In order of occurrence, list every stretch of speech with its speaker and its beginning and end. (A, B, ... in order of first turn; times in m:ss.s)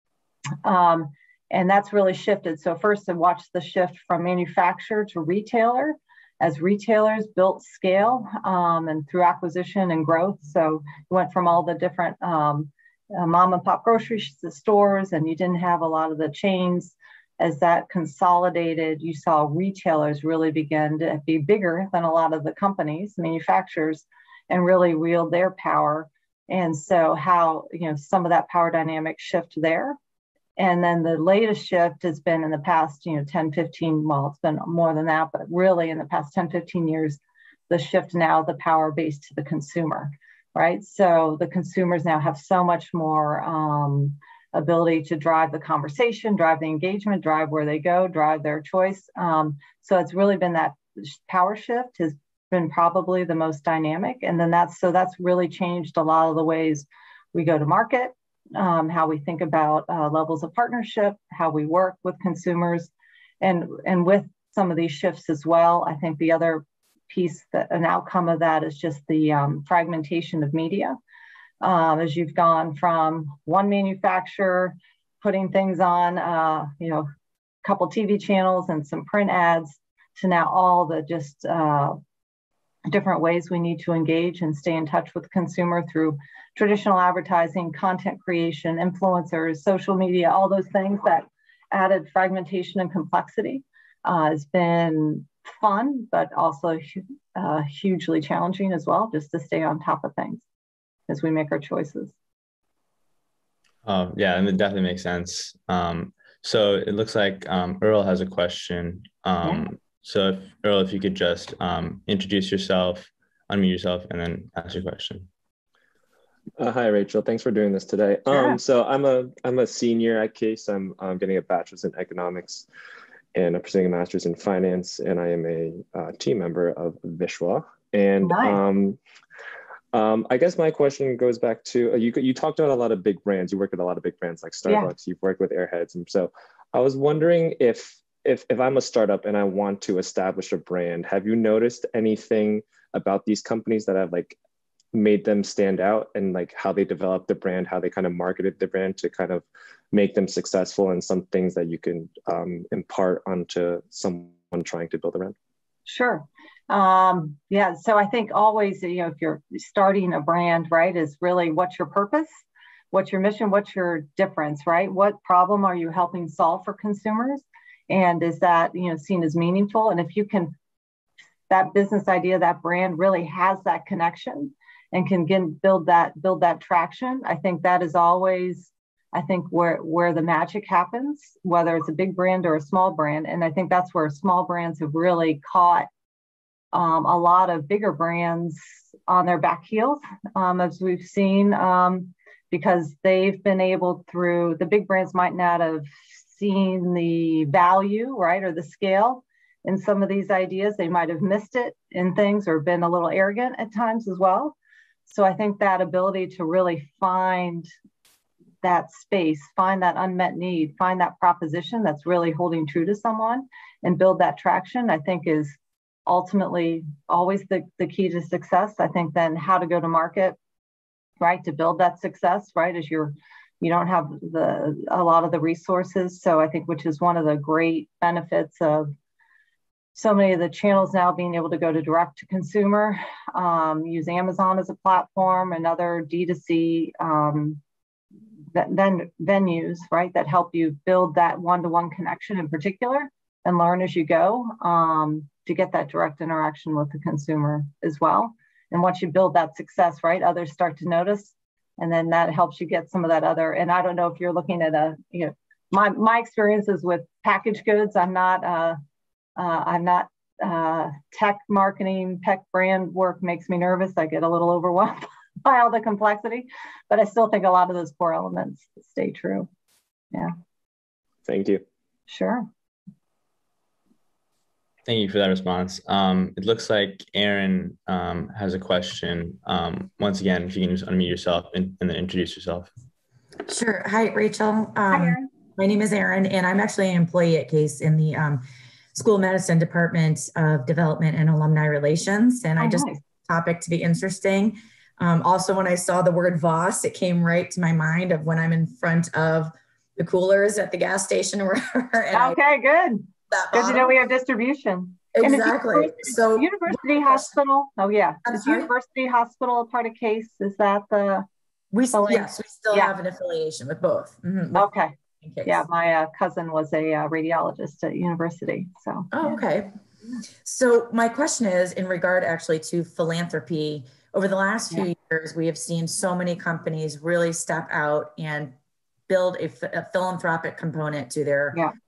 0:00.6-0:30.0 A
0:30.6-0:37.2 A
0:37.7-1:11.0 A
1:11.6-1:17.1 A
1:17.6-1:22.0 A
1:22.9-1:40.4 A
1:41.1-1:42.2 A
1:43.8-1:55.3 B
1:56.6-2:02.6 C
1:58.3-1:58.6 A
2:03.4-2:09.0 C
2:08.2-2:08.6 A
2:09.9-2:24.4 C
2:24.9-2:35.4 C
2:35.9-2:42.3 A
2:42.9-2:50.5 A
2:51.5-3:05.9 A
3:06.7-3:24.6 A
3:25.1-3:27.7 A
3:28.6-3:40.4 A
3:41.2-3:48.9 A
3:49.9-3:57.6 A
3:58.5-4:18.8 A
4:19.4-4:29.5 A
4:31.3-4:31.6 C
4:32.1-4:32.5 A
4:34.9-4:42.7 B
4:43.5-5:02.4 D
4:44.9-4:45.3 A
4:52.6-4:53.0 A
5:02.1-5:11.3 A
5:03.3-5:03.9 D
5:05.1-5:07.2 D
5:08.3-5:08.7 D
5:11.7-5:14.7 D
5:11.9-5:12.9 A
5:14.6-5:14.9 A
5:15.2-5:15.6 D
5:15.4-5:19.4 A
5:19.1-5:19.7 D
5:20.4-5:28.6 D
5:29.1-5:31.6 D